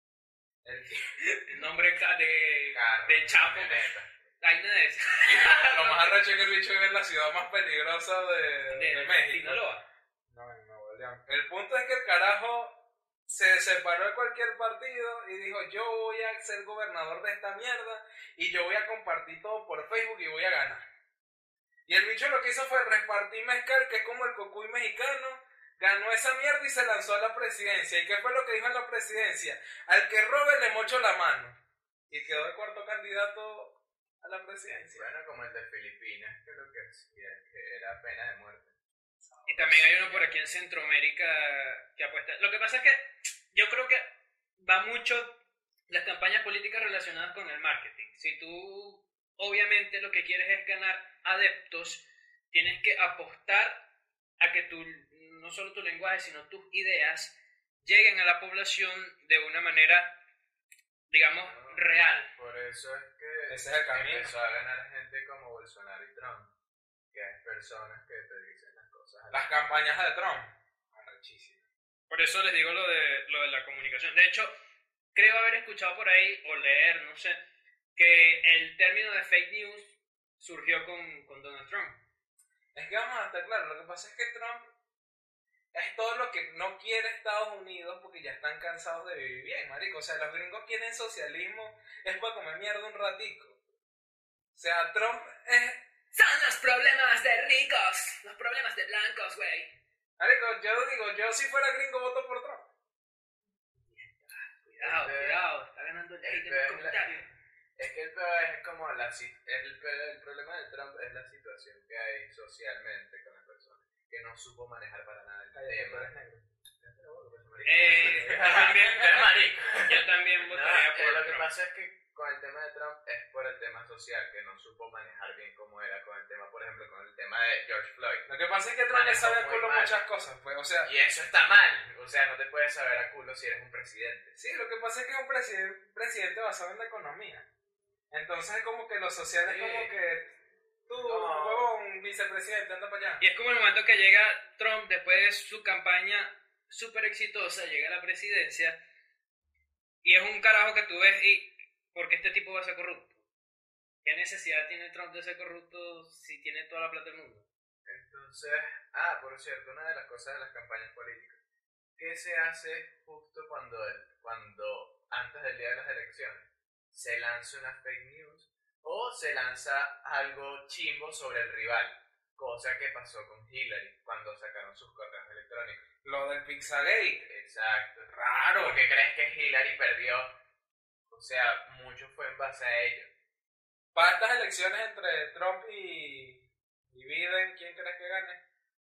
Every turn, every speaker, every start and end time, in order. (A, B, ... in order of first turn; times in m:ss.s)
0:00.6-0:01.7 A
0:01.5-0:06.2 B
0:02.7-0:04.1 C
0:05.2-0:09.8 A
0:08.7-0:09.8 B
0:10.3-0:12.8 A
0:13.3-0:20.8 A
0:21.9-0:31.6 A
0:32.1-0:35.1 A
0:34.9-0:38.7 C
0:39.3-0:39.8 A
0:39.5-0:44.0 B
0:39.8-0:40.3 C
0:44.6-0:45.4 B
0:45.9-0:53.8 B
0:54.4-1:00.1 B
1:01.1-1:02.3 B
1:01.4-1:01.8 C
1:02.3-1:06.5 C
1:03.5-1:04.3 A
1:07.1-1:10.0 C
1:09.3-1:11.6 A
1:12.1-1:14.5 B
1:15.1-1:17.4 B
1:18.0-1:22.0 B
1:22.7-1:24.7 A
1:25.7-1:33.6 A
1:34.5-1:35.8 A
1:36.1-1:39.7 B
1:40.2-1:42.7 A
1:43.9-1:47.3 B
1:44.8-1:45.4 C
1:46.2-1:47.1 C
1:47.8-1:56.1 C
1:55.5-1:56.5 A
1:56.8-2:08.3 C
1:57.6-1:59.3 B
1:57.9-1:58.7 A
1:59.8-2:01.5 B
2:08.3-2:10.9 A
2:08.9-2:10.0 C
2:10.8-2:14.4 C
2:14.4-2:17.5 A
2:18.1-2:20.3 A
2:19.4-2:20.0 C
2:20.9-2:23.2 A
2:21.0-2:21.7 C
2:23.2-2:28.8 B
2:30.0-2:33.2 B
2:34.0-2:37.5 B
2:37.9-2:41.4 C
2:42.0-2:55.8 C
2:56.0-2:57.2 A
2:57.2-3:00.3 C
2:58.1-2:58.8 A
3:01.1-3:03.1 C
3:04.0-3:06.4 A
3:06.9-3:08.4 A